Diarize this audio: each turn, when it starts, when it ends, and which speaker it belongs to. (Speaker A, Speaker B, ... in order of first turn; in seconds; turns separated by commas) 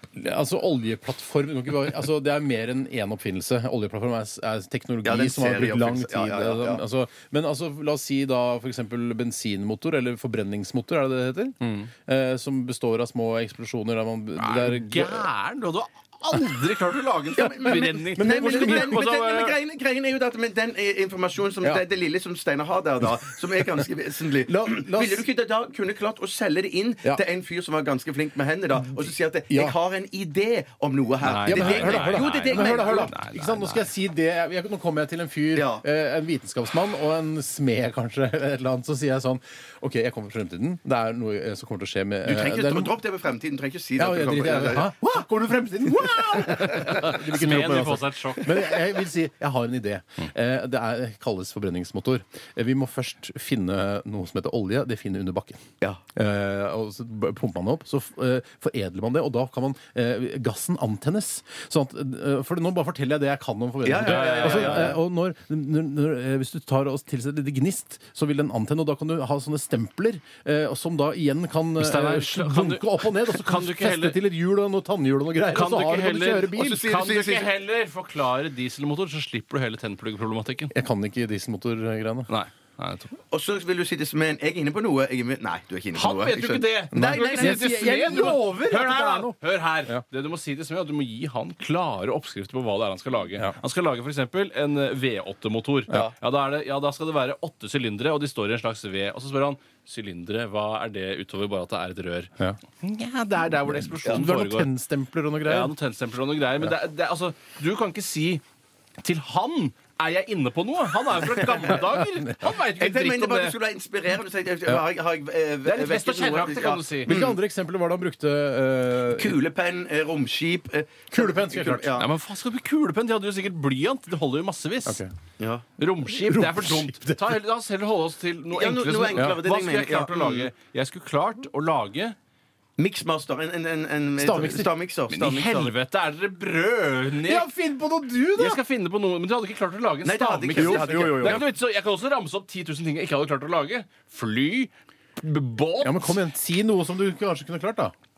Speaker A: 0.1-15.3, Speaker B: 5.0-6.8, Speaker C: 14.4-19.5, Speaker B: 17.3-33.1, Speaker A: 17.6-19.0, Speaker A: 24.4-25.2, Speaker A: 29.5-29.8, Speaker C: 31.2-33.9, Speaker A: 31.4-42.9, Speaker B: 35.5-35.8, Speaker B: 42.2-44.9, Speaker A: 44.0-55.6, Speaker C: 46.8-48.7, Speaker A: 56.1-76.8, Speaker B: 63.8-65.0, Speaker C: 64.0-64.9, Speaker C: 71.8-74.2, Speaker C: 75.5-80.7, Speaker B: 76.6-77.5, Speaker A: 80.7-82.3, Speaker C: 82.3-83.1, Speaker B: 83.3-88.5, Speaker C: 85.9-104.7, Speaker A: 86.9-90.0, Speaker A: 103.7-105.7, Speaker C: 105.4-108.4, Speaker C: 109.0-113.5, Speaker B: 112.8-117.4, Speaker C: 115.6-117.1, Speaker A: 117.0-119.4, Speaker B: 119.1-122.1, Speaker A: 121.1-121.9, Speaker C: 122.0-125.0, Speaker A: 124.8-125.1, Speaker B: 125.4-125.6, Speaker C: 125.8-132.2, Speaker A: 126.1-127.4, Speaker B: 128.5-130.5, Speaker B: 132.8-135.7, Speaker A: 134.2-134.7, Speaker C: 135.1-137.5, Speaker A: 137.2-138.6, Speaker C: 138.3-146.2, Speaker B: 140.0-141.4, Speaker A: 140.5-141.4, Speaker A: 145.8-147.9